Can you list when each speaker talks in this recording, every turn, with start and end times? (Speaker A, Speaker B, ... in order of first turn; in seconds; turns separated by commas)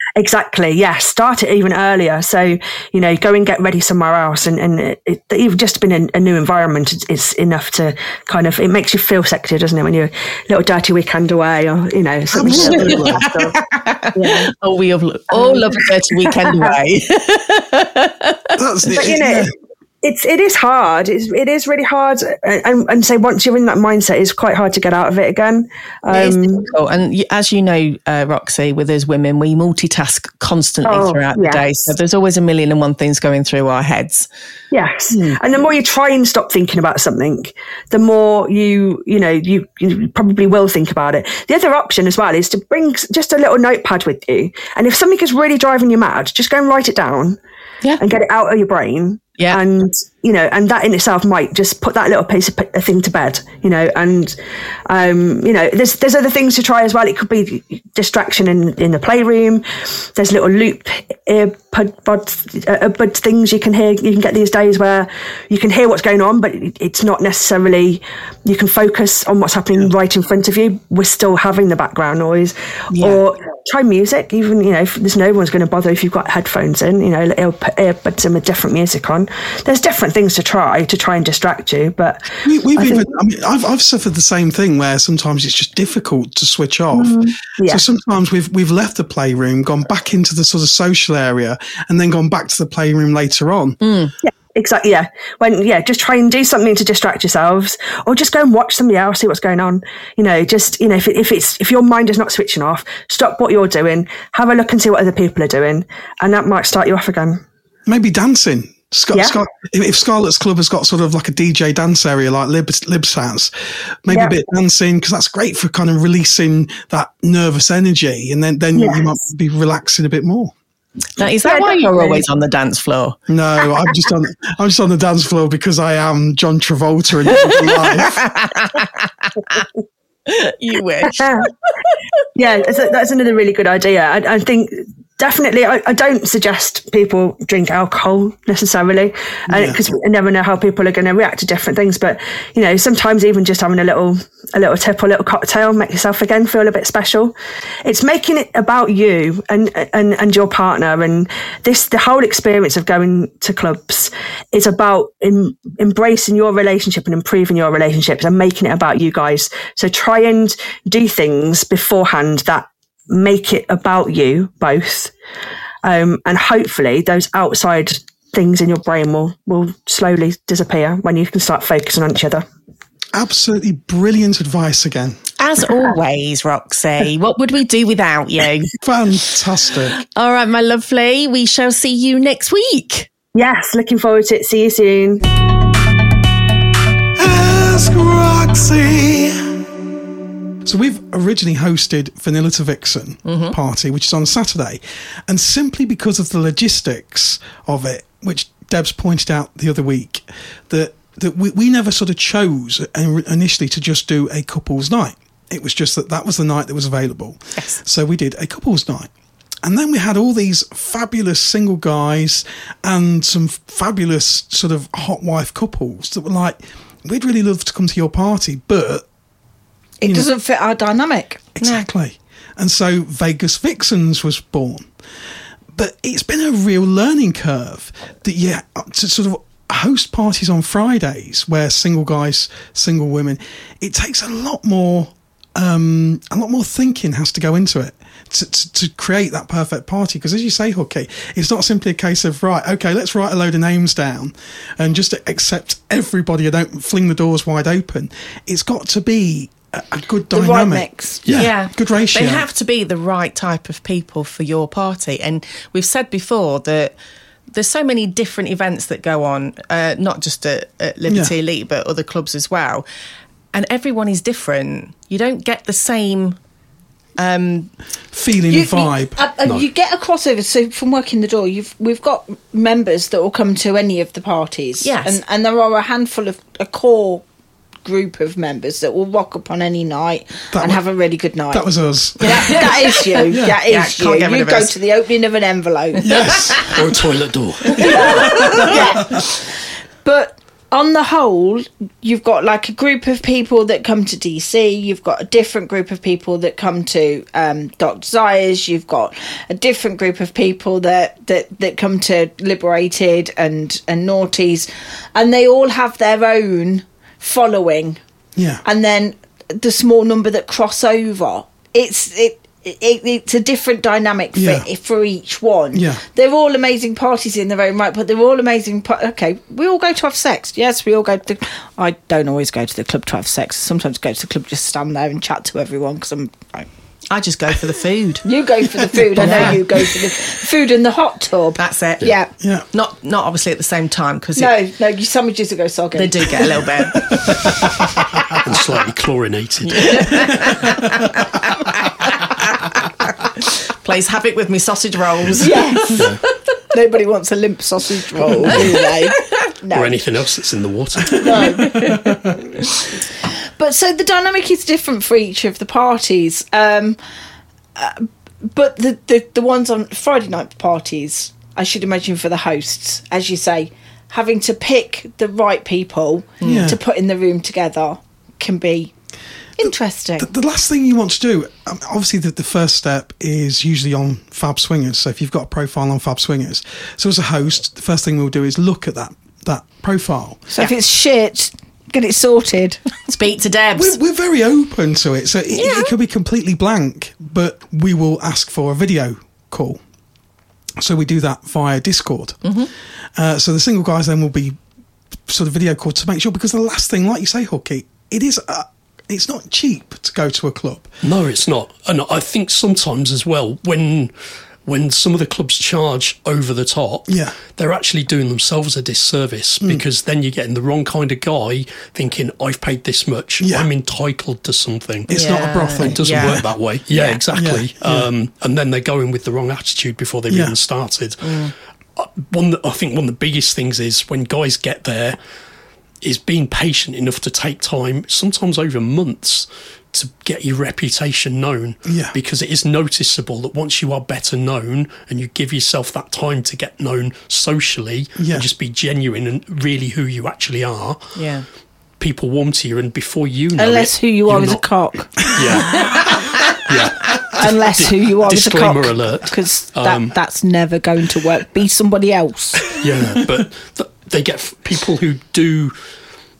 Speaker A: 0.1-13.6, Speaker B: 12.3-13.3, Speaker C: 12.5-18.6, Speaker A: 14.1-14.5, Speaker A: 15.3-16.7, Speaker B: 18.6-19.5, Speaker A: 18.9-19.5, Speaker A: 20.0-26.7, Speaker C: 26.1-34.3, Speaker A: 30.8-31.6, Speaker A: 34.7-47.4, Speaker A: 48.0-54.4, Speaker A: 54.9-83.0, Speaker C: 72.9-73.2, Speaker B: 82.4-93.8, Speaker A: 86.9-87.8, Speaker C: 93.8-94.1, Speaker A: 94.2-107.4, Speaker B: 107.9-113.5, Speaker B: 114.0-120.5, Speaker A: 114.1-114.4, Speaker A: 118.8-119.1, Speaker C: 121.2-123.2, Speaker A: 121.4-122.2, Speaker B: 123.3-128.3, Speaker C: 127.3-129.7, Speaker C: 130.2-131.9, Speaker A: 131.1-131.5, Speaker A: 132.3-165.1, Speaker B: 139.5-139.8, Speaker A: 165.8-172.4, Speaker B: 173.1-175.2, Speaker C: 175.4-178.8, Speaker B: 178.8-180.0, Speaker C: 180.1-183.1, Speaker A: 183.3-185.2, Speaker B: 187.2-189.2, Speaker C: 187.3-189.1, Speaker B: 190.6-209.1, Speaker C: 193.2-193.5, Speaker B: 209.6-219.1, Speaker D: 220.0-221.4, Speaker B: 220.0-220.3, Speaker B: 221.6-224.9, Speaker C: 221.6-221.9, Speaker B: 225.7-252.4, Speaker D: 250.3-251.2, Speaker C: 251.3-256.9, Speaker C: 257.5-262.8, Speaker B: 261.1-261.3, Speaker C: 263.5-266.4, Speaker C: 267.2-267.7, Speaker B: 268.1-269.2, Speaker D: 268.5-277.2, Speaker C: 274.8-275.2, Speaker D: 277.8-281.7, Speaker B: 280.5-280.8, Speaker B: 281.5-282.7, Speaker D: 282.2-286.2, Speaker C: 282.3-284.7, Speaker B: 283.3-283.6, Speaker B: 286.0-286.7, Speaker C: 286.1-286.7, Speaker E: 286.6-288.6, Speaker D: 287.7-289.3, Speaker C: 287.8-288.6, Speaker B: 287.9-289.2, Speaker D: 290.0-308.0, Speaker B: 308.4-308.6, Speaker D: 308.6-326.7, Speaker B: 314.3-314.7, Speaker B: 315.7-316.0, Speaker C: 327.1-328.2, Speaker D: 328.2-332.3, Speaker B: 329.0-329.5, Speaker C: 329.2-329.6, Speaker C: 331.6-332.1, Speaker B: 332.4-332.6, Speaker C: 332.7-334.5, Speaker D: 334.4-336.7, Speaker C: 335.9-337.6, Speaker B: 337.1-337.7, Speaker E: 338.4-340.4, Speaker C: 339.6-346.2, Speaker B: 340.4-340.8, Speaker D: 345.4-346.1, Speaker E: 345.9-346.2, Speaker D: 346.7-350.0, Speaker C: 348.4-349.3, Speaker E: 349.7-351.7, Speaker D: 351.1-352.0, Speaker B: 351.2-352.4, Speaker C: 351.6-352.0, Speaker D: 353.2-357.0, Speaker D: 357.8-368.9, Speaker C: 366.4-366.7, Speaker B: 366.4-366.8, Speaker D: 369.6-370.3, Speaker B: 370.2-380.5, Speaker D: 380.5-382.8, Speaker C: 383.1-384.0, Speaker B: 383.7-389.8, Speaker C: 385.5-385.9, Speaker B: 390.8-392.4, Speaker C: 392.4-392.7, Speaker B: 393.1-394.6, Speaker B: 395.3-400.9, Speaker E: 401.0-404.1, Speaker E: 404.6-425.2, Speaker B: 407.1-407.4, Speaker B: 413.4-413.7, Speaker B: 415.1-416.5, Speaker C: 415.1-417.2, Speaker B: 417.3-418.1, Speaker B: 420.3-420.5, Speaker C: 421.2-421.5, Speaker E: 426.0-441.1, Speaker B: 431.8-432.1, Speaker B: 438.2-438.5, Speaker C: 441.1-441.4, Speaker E: 442.0-444.6, Speaker D: 443.6-445.3, Speaker E: 445.2-450.1, Speaker D: 447.3-452.7, Speaker E: 452.7-455.7